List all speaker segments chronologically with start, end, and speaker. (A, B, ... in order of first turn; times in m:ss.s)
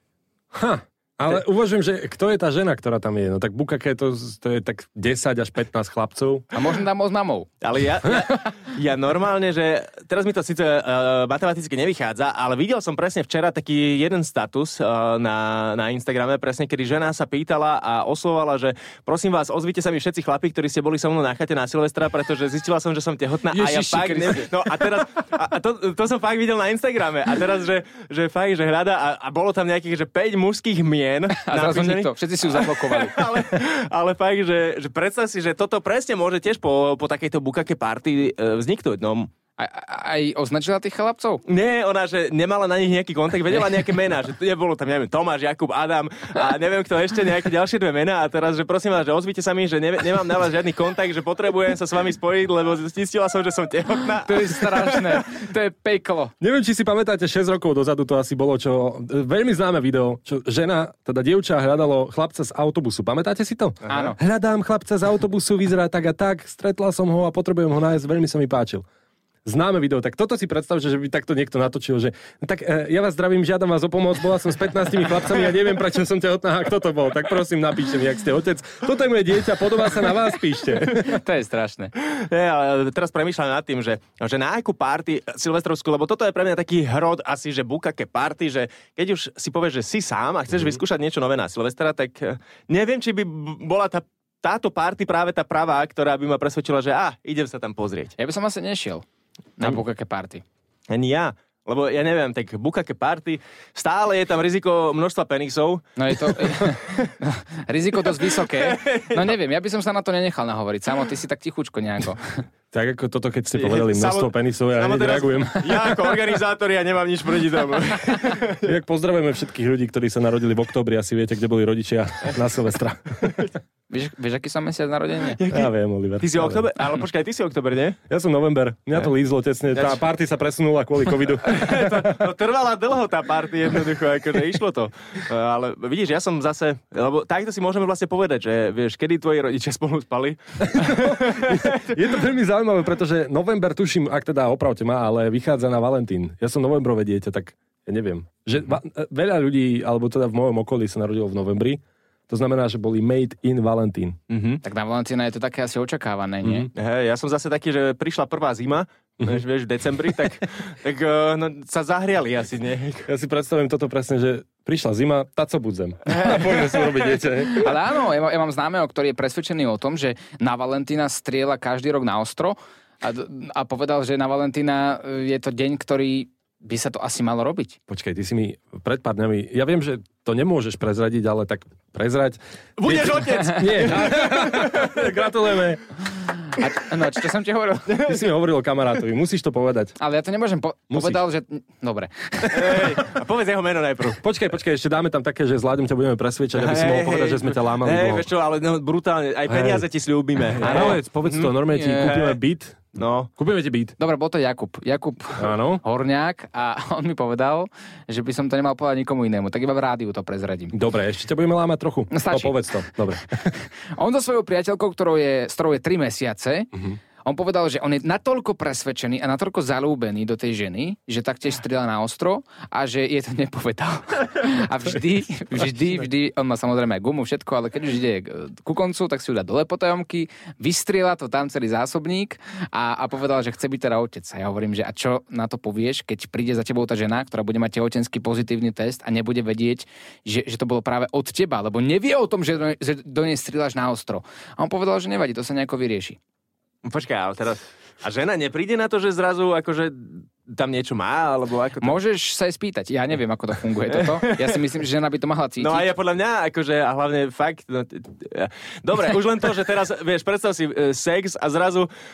0:00.5-0:06.4 A
0:06.5-0:07.5 B
0:07.6-0:39.3 C
0:23.5-0:24.5 B
0:31.4-0:33.2 B
0:39.6-0:41.4 B
0:41.5-0:55.2 C
0:54.2-0:56.3 B
0:56.4-1:08.8 A
1:03.9-1:04.2 B
1:09.4-1:21.2 A
1:20.9-1:21.9 B
1:22.0-1:38.1 C
1:38.2-1:39.0 B
1:39.6-1:40.4 B
1:40.9-1:47.1 C
1:46.0-1:52.4 B
1:48.4-1:49.3 C
1:52.7-1:56.1 A
1:53.5-1:58.7 C
1:58.6-2:03.5 A
2:03.9-2:05.4 B
2:05.4-2:08.0 C
2:05.5-2:06.6 A
2:08.1-2:12.3 A
2:09.7-2:10.0 C
2:11.4-2:21.9 C
2:20.7-2:34.2 A
2:34.3-2:34.6 C
2:34.6-2:36.7 B
2:36.4-2:36.7 A
2:36.7-2:43.1 C
2:43.0-2:47.7 A
2:46.1-2:47.0 C
2:47.6-2:57.8 B
2:57.9-3:05.8 A
3:02.8-3:05.1 C
3:06.6-3:07.9 B
3:07.9-3:08.2 C
3:08.0-3:10.0 A
3:10.0-3:12.8 B
3:10.9-3:11.2 A
3:12.5-3:14.2 C
3:14.2-3:18.3 A
3:16.5-3:22.4 C
3:19.5-3:19.8 A
3:20.5-3:23.9 A
3:20.6-3:21.0 B
3:21.7-3:22.1 B
3:23.0-3:23.3 C
3:24.0-3:30.7 B
3:25.4-3:25.8 A
3:30.7-3:33.5 A
3:32.1-3:32.9 B
3:33.9-3:36.7 B
3:36.7-3:37.0 A
3:37.2-4:06.2 B
4:06.8-4:12.0 C
4:11.8-4:15.9 B
4:13.9-4:14.6 C
4:15.6-4:21.9 C